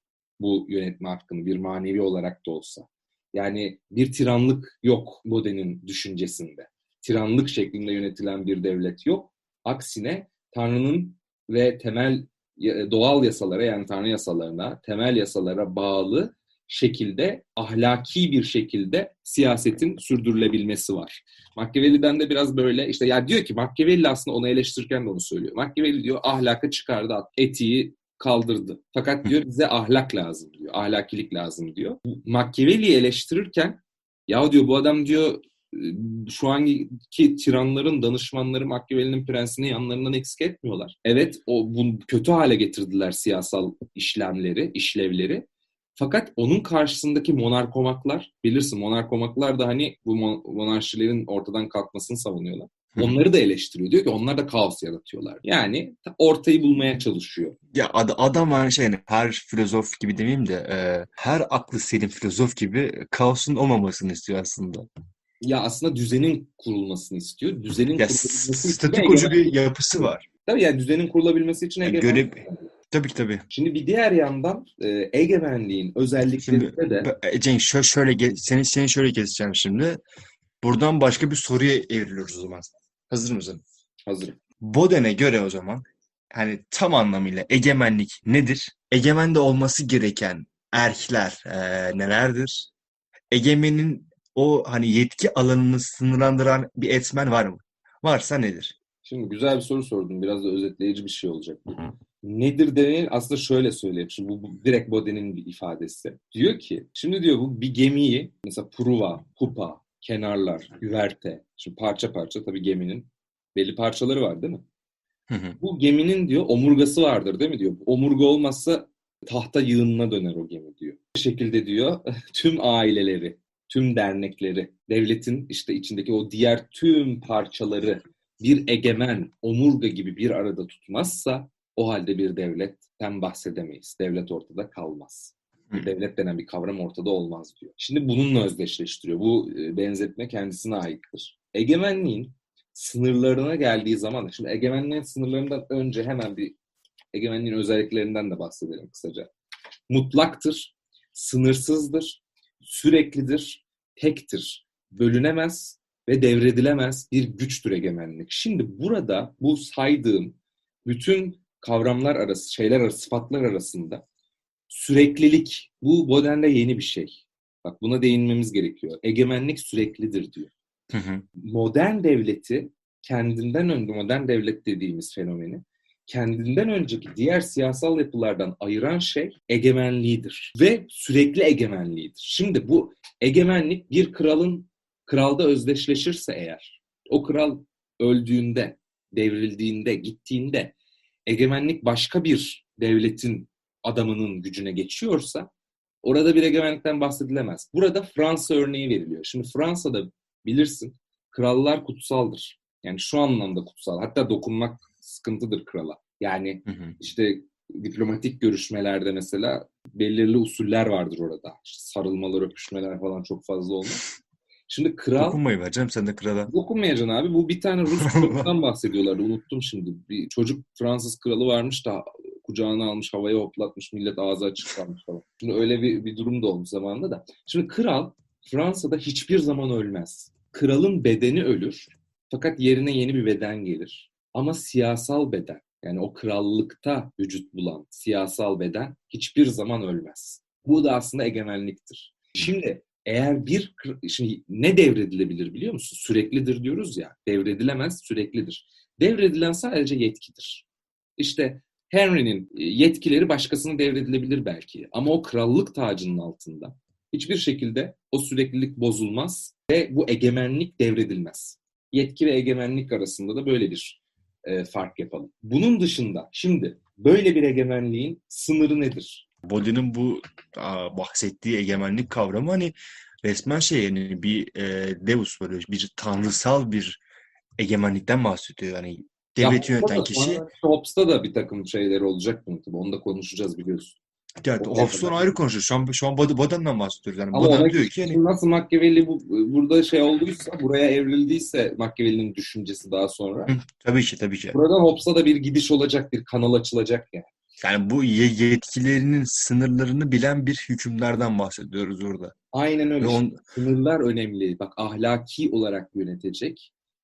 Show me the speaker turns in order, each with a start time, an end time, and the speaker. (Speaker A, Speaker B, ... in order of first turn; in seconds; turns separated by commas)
Speaker A: 0.4-45.4, Speaker A: 46.0-57.6, Speaker B: 57.7-64.9, Speaker A: 65.4-69.5, Speaker B: 68.0-70.2, Speaker A: 70.4-72.7, Speaker B: 71.8-73.4, Speaker A: 73.5-77.1, Speaker B: 76.4-80.0, Speaker B: 80.6-83.6, Speaker A: 84.1-84.4, Speaker B: 84.6-92.7, Speaker B: 93.3-98.7, Speaker A: 99.0-114.6, Speaker B: 115.3-115.6, Speaker A: 115.6-146.5, Speaker A: 147.1-149.3, Speaker A: 149.9-164.0, Speaker A: 164.7-170.5, Speaker B: 170.9-171.2, Speaker A: 171.4-190.7, Speaker A: 191.3-195.5, Speaker A: 196.0-214.0, Speaker B: 206.7-207.0, Speaker A: 214.7-215.4, Speaker B: 215.2-216.5, Speaker A: 216.5-250.7, Speaker B: 217.9-218.5, Speaker A: 251.2-269.2, Speaker B: 269.4-277.0, Speaker B: 277.6-280.4, Speaker A: 279.4-284.0, Speaker B: 284.4-288.2, Speaker A: 284.6-285.3, Speaker A: 287.3-293.5, Speaker B: 293.5-294.6, Speaker A: 294.5-297.3, Speaker B: 297.6-302.3, Speaker A: 302.5-306.7, Speaker B: 303.0-303.4